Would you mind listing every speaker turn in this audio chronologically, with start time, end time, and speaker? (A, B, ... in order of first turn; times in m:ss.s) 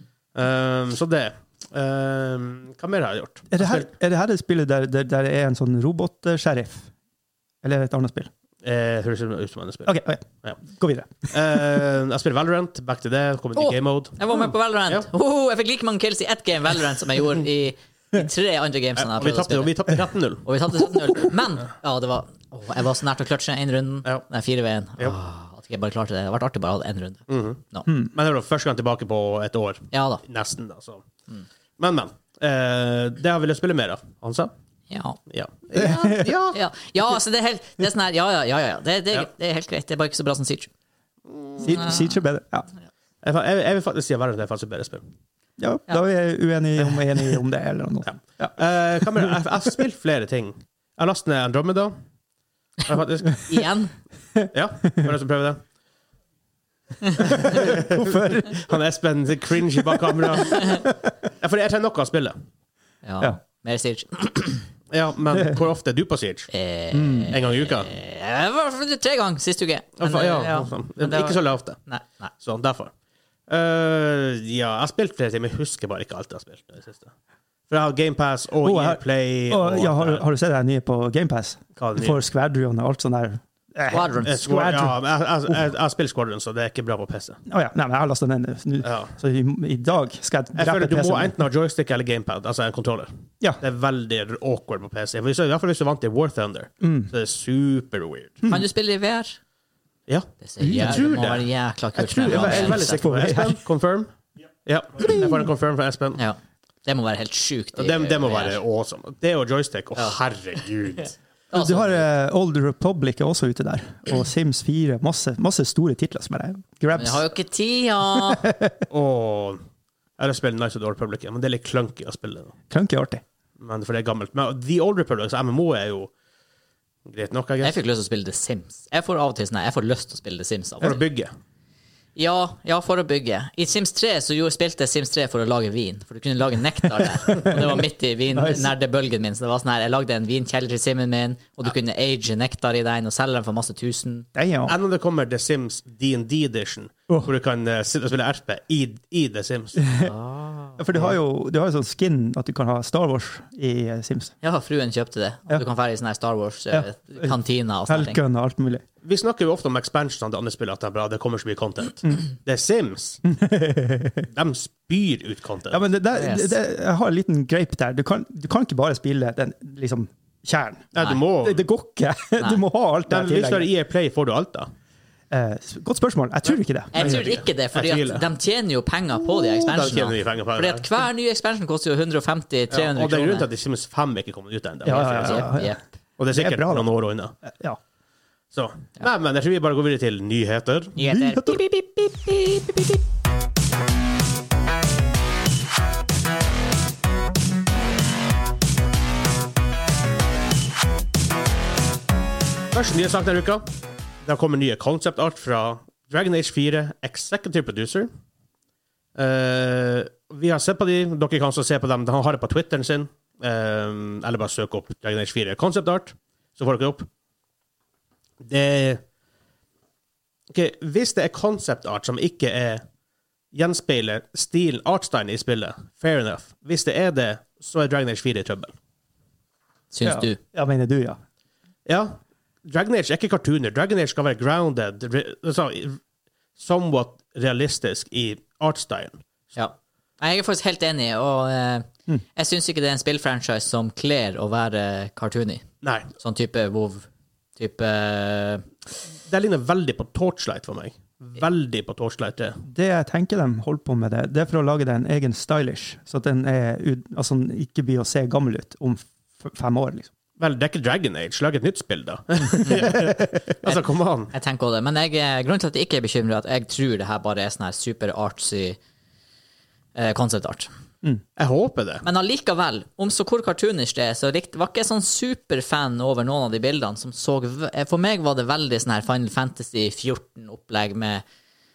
0:00.3-0:03.9 A
0:03.5-0:06.9 B
0:07.6-0:08.3 B
0:08.6-0:10.6 A
0:09.8-0:11.6 B
0:11.3-0:14.3 A
0:13.6-0:19.9 C
0:19.0-0:20.5 A
0:20.4-0:27.8 C
0:27.3-0:31.0 A
0:27.9-0:28.1 B
0:29.9-0:30.2 C
0:31.8-0:34.5 A
0:34.9-0:35.2 C
0:35.3-0:36.6 A
0:35.8-0:36.4 B
0:36.0-0:40.7 C
0:41.3-0:41.6 A
0:41.6-0:42.7 B
0:43.2-0:45.0 A
0:45.6-0:48.6 B
0:48.1-0:52.0 A
0:52.8-0:53.5 A
0:53.5-0:53.9 C
0:54.5-0:55.6 A
0:57.3-0:58.6 B
0:57.4-1:00.9 A
1:00.4-1:00.8 C
1:01.4-1:02.4 A
1:03.0-1:04.6 C
1:04.9-1:06.5 A
1:06.5-1:12.3 C
1:06.9-1:07.3 B
1:07.3-1:07.9 A
1:10.0-1:11.8 A
1:12.4-1:12.9 A
1:13.5-1:17.1 A
1:17.7-1:20.2 A
1:18.6-1:25.0 B
1:21.8-1:22.2 A
1:23.9-1:24.4 C
1:24.2-1:27.4 A
1:27.5-1:31.3 B
1:28.8-1:29.1 A
1:30.5-1:38.4 A
1:36.8-1:37.1 B
1:38.5-1:39.4 C
1:40.1-1:44.1 A
1:40.4-1:43.1 C
1:42.3-1:43.6 B
1:44.6-1:46.2 A
1:45.0-1:45.4 B
1:46.2-1:48.6 C
1:47.8-1:51.1 A
1:51.5-1:52.1 C
1:51.5-1:57.2 B
1:57.0-1:58.5 C
1:58.1-1:58.8 B
1:58.9-1:59.6 A
2:00.2-2:02.5 A
2:02.7-2:03.2 B
2:03.6-2:06.1 A
2:07.0-2:07.8 A
2:07.6-2:11.0 C
2:10.8-2:11.3 A
2:12.2-2:24.3 C
2:17.4-2:17.8 B
2:18.3-2:18.7 B
2:24.3-2:24.7 B
2:24.7-2:29.9 A
2:29.8-2:30.1 B
2:30.0-2:30.8 C
2:30.8-2:34.3 B
2:34.4-2:38.2 C
2:36.7-2:37.3 B
2:37.9-2:38.8 B
2:39.0-2:43.2 A
2:43.2-2:44.3 B
2:44.3-2:45.8 A
2:45.7-2:53.7 B
2:46.1-2:46.5 C
2:50.9-2:51.6 A
2:53.1-2:54.7 A
2:55.3-2:57.2 B
2:56.9-3:03.5 C
2:56.9-2:58.3 A
2:59.6-3:00.9 A
3:02.7-3:05.5 A
3:04.8-3:05.8 B
3:04.9-3:05.8 C
3:06.2-3:07.3 A
3:06.3-3:06.9 B
3:07.4-3:07.8 B
3:08.5-3:11.0 A
3:11.0-3:13.0 C
3:11.0-3:11.6 B
3:22.7-3:23.6 A
3:24.2-3:28.1 A
3:29.2-3:37.1 A
3:38.4-3:39.0 A
3:40.5-3:42.8 A
3:43.5-3:48.7 A
3:49.9-3:50.4 C
3:50.0-3:51.2 B
3:51.8-3:56.0 A
3:56.6-3:59.2 A
3:59.5-4:08.6 C
4:05.8-4:06.1 A
4:09.3-4:12.6 A
4:12.6-4:20.1 B
4:20.4-4:24.3 A
4:22.7-4:22.9 C
4:22.8-4:23.2 B
4:24.3-4:28.8 C
4:29.9-4:30.7 C
4:31.4-4:32.0 A
4:32.0-4:41.2 C